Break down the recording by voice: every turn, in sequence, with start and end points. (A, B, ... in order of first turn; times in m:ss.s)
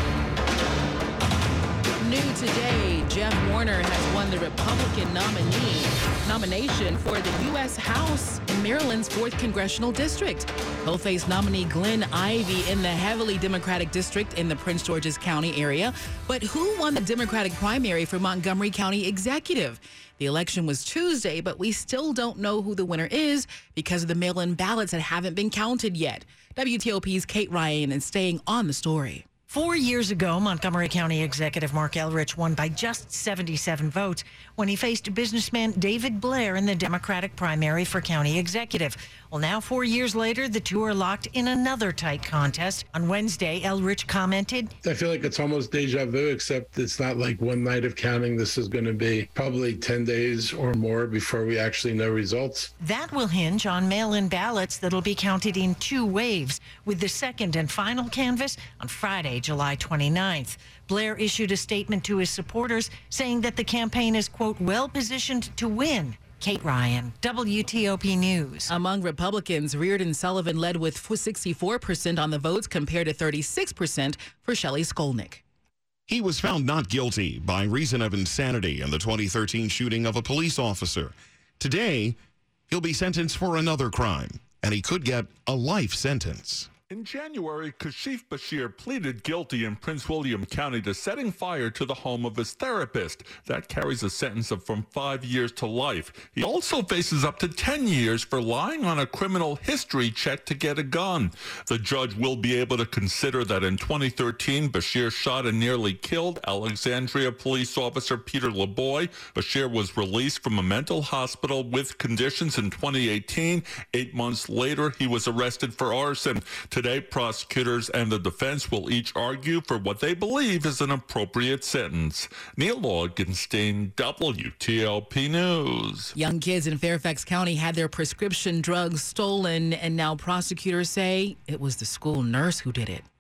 0:02.0-0:29.2 A
0:29.5-0:44.7 B
0:44.8-0:52.7 C
0:52.8-1:08.7 B
1:08.7-1:15.4 A
1:16.1-1:22.2 D
1:22.7-1:26.7 D
1:26.9-2:06.2 E
2:06.2-2:13.0 A